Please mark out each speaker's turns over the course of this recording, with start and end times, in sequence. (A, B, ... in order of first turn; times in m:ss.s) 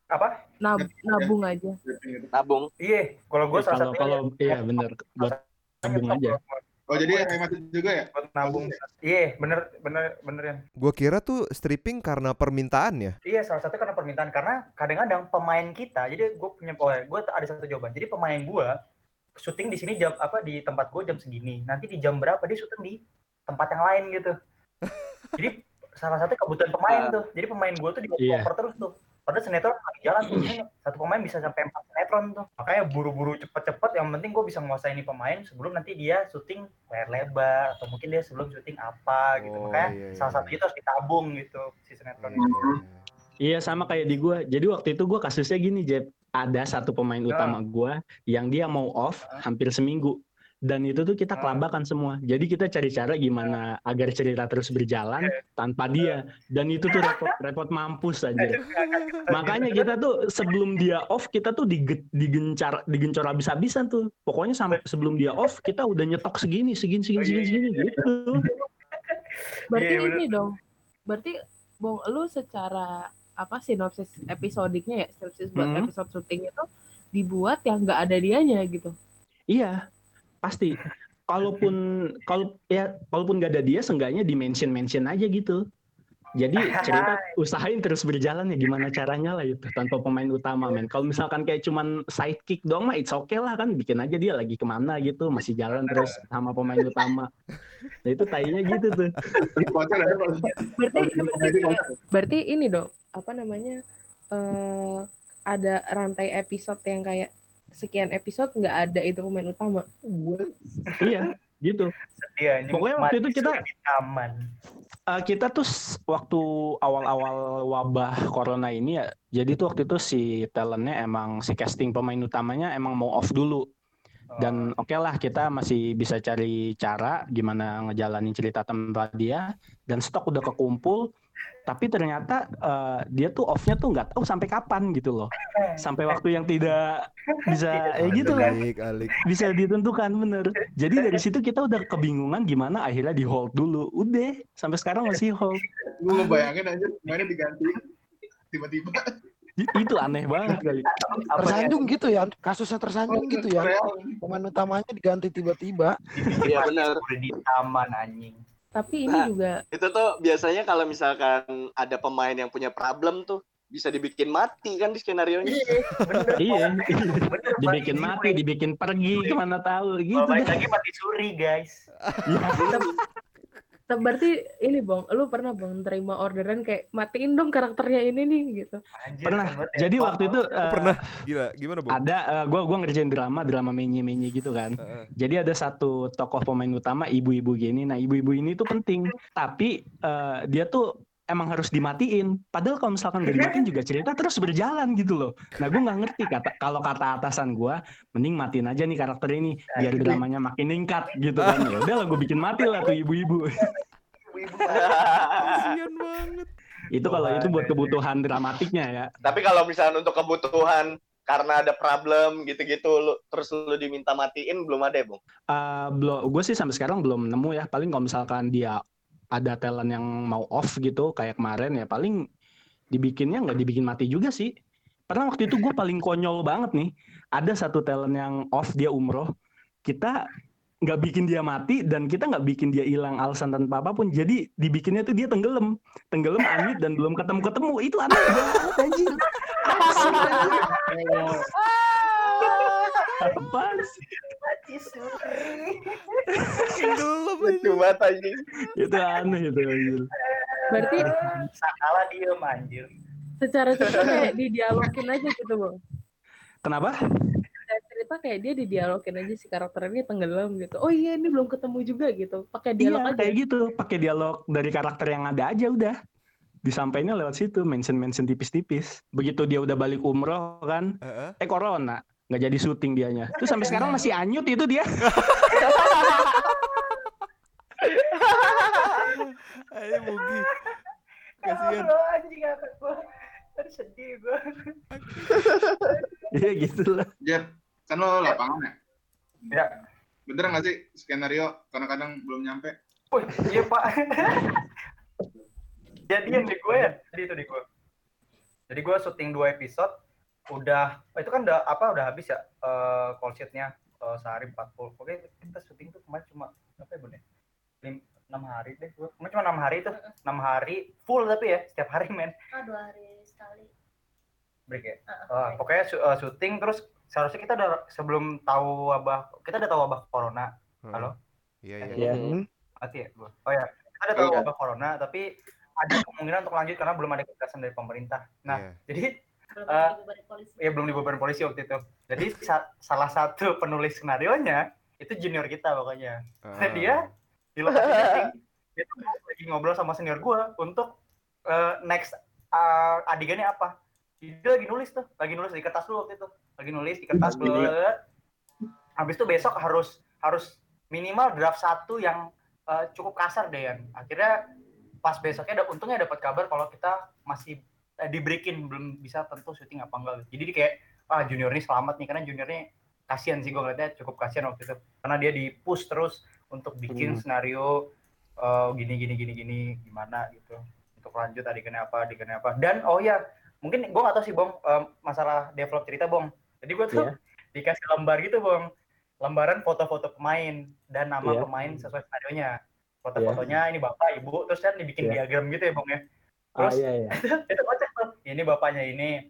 0:00.6-0:01.8 A
0:00.8-0:01.3 B
0:01.8-0:02.3 B
0:02.3-0:02.7 C
0:02.8-0:07.4 D
0:03.5-0:06.4 E
0:06.9-0:08.7 B
0:08.1-0:10.6 D
0:10.8-0:13.2 F
0:13.2-0:18.7 D
0:19.4-0:23.0 D
0:23.5-0:24.3 D
0:25.4-0:42.5 D
0:26.9-0:27.1 C
0:28.2-0:28.5 E
0:39.4-0:40.6 F
0:42.2-0:43.0 F
0:42.4-0:42.8 B
0:43.4-0:58.6 E
0:47.3-0:47.6 D
0:51.4-0:51.6 D
0:56.9-0:57.3 D
0:58.4-0:59.9 D
0:58.8-0:59.3 F
0:59.3-1:08.4 E
1:07.2-1:10.2 D
1:09.7-1:10.5 A
1:11.1-1:16.6 A
1:15.6-1:15.9 E
1:17.1-1:18.9 A
1:20.4-1:20.8 E
1:21.3-1:25.6 E
1:26.4-1:37.3 E
1:26.6-1:27.3 D
1:35.8-1:36.2 D
1:38.0-1:39.1 E
1:39.5-1:41.9 B
1:40.7-1:43.8 A
1:44.3-1:45.0 A
1:45.5-1:49.8 A
1:51.0-1:51.9 E
1:52.2-1:54.4 D
1:52.7-1:53.6 E
1:55.1-2:03.6 E
2:04.3-2:04.7 D
2:04.4-2:11.0 E
2:11.7-2:18.6 E
2:15.4-2:16.2 D
2:17.3-2:18.5 D
2:18.0-2:19.2 F
2:19.2-2:25.6 E
2:21.0-2:21.2 D
2:26.0-2:27.8 B
2:26.1-2:26.4 D
2:28.5-2:29.1 B
2:29.6-2:30.8 E
2:30.5-2:32.0 D
2:31.3-2:36.4 G
2:33.1-2:34.2 B
2:36.1-2:38.4 D
2:36.4-2:36.9 C
2:38.7-2:39.6 A
2:39.1-2:45.7 C
2:45.5-2:45.9 A
2:45.9-2:48.4 D
2:46.0-2:46.4 F
2:46.4-2:50.5 E
2:50.1-2:51.8 D
2:52.0-2:52.3 F
2:52.3-2:52.8 E
2:52.6-2:52.9 C
2:53.9-2:58.8 A
2:59.0-3:00.5 D
2:59.2-3:01.0 E
3:00.6-3:02.0 F
3:01.9-3:23.5 E
3:04.8-3:05.1 F
3:13.3-3:13.6 D
3:19.7-3:20.2 D
3:21.4-3:21.7 F
3:22.6-3:23.0 D
3:24.2-3:25.0 D
3:24.7-3:25.6 C
3:25.4-3:26.5 F
3:26.9-3:29.1 E
3:27.0-3:28.0 D
3:29.2-3:35.2 C
3:35.5-3:38.8 E
3:39.3-3:42.2 E
3:42.9-3:44.5 E
3:45.1-3:49.3 E
3:49.8-3:50.1 E
3:50.8-3:59.3 E
3:59.6-4:00.8 D
3:59.9-4:00.4 C
3:59.9-4:00.5 E
4:02.2-4:02.6 C
4:02.4-4:02.7 D
4:03.2-4:04.0 E
4:04.3-4:05.8 D
4:06.8-4:07.9 F
4:07.4-4:08.4 C
4:08.7-4:10.1 E
4:10.2-4:12.9 D
4:10.7-4:11.1 A
4:13.4-4:15.7 A
4:16.6-4:16.9 E
4:17.7-4:23.4 A
4:22.8-4:25.9 E
4:26.6-4:30.9 E
4:31.0-4:31.4 F
4:31.4-4:34.8 E
4:33.4-4:34.1 D
4:35.1-4:35.4 F
4:35.5-4:36.9 D
4:37.9-4:39.2 D
4:38.9-4:40.5 F
4:40.0-4:40.8 D
4:41.4-4:43.0 D
4:41.4-4:41.9 F
4:43.6-4:46.0 D
4:45.0-4:45.4 F
4:45.3-4:45.9 C
4:46.3-4:47.1 E
4:47.2-4:48.7 B
4:50.3-4:52.7 B
4:53.1-4:54.6 D
4:56.1-4:57.6 D
4:58.7-4:59.9 D
5:00.5-5:07.2 D
5:07.8-5:12.3 D
5:12.5-5:13.7 H
5:14.7-5:21.1 D
5:15.1-5:15.6 H
5:20.8-5:21.1 F
5:21.6-5:22.1 F
5:22.0-5:22.3 C
5:22.0-5:22.3 E
5:22.8-5:25.2 D
5:24.2-5:24.5 C
5:25.8-5:29.1 D
5:28.5-5:28.8 F
5:29.5-5:31.2 H
5:29.7-5:29.9 D
5:30.6-5:37.0 D
5:36.4-5:37.1 F
5:37.6-5:40.9 D
5:41.5-5:47.9 D
5:47.2-5:47.7 E
5:49.0-5:54.3 D
5:55.0-6:07.7 D
6:06.9-6:07.2 E
6:08.4-6:18.6 D
6:19.2-6:22.5 D
6:21.2-6:21.8 E
6:23.0-6:26.0 D
6:23.2-6:23.5 E
6:26.6-6:27.1 E
6:26.6-6:29.1 D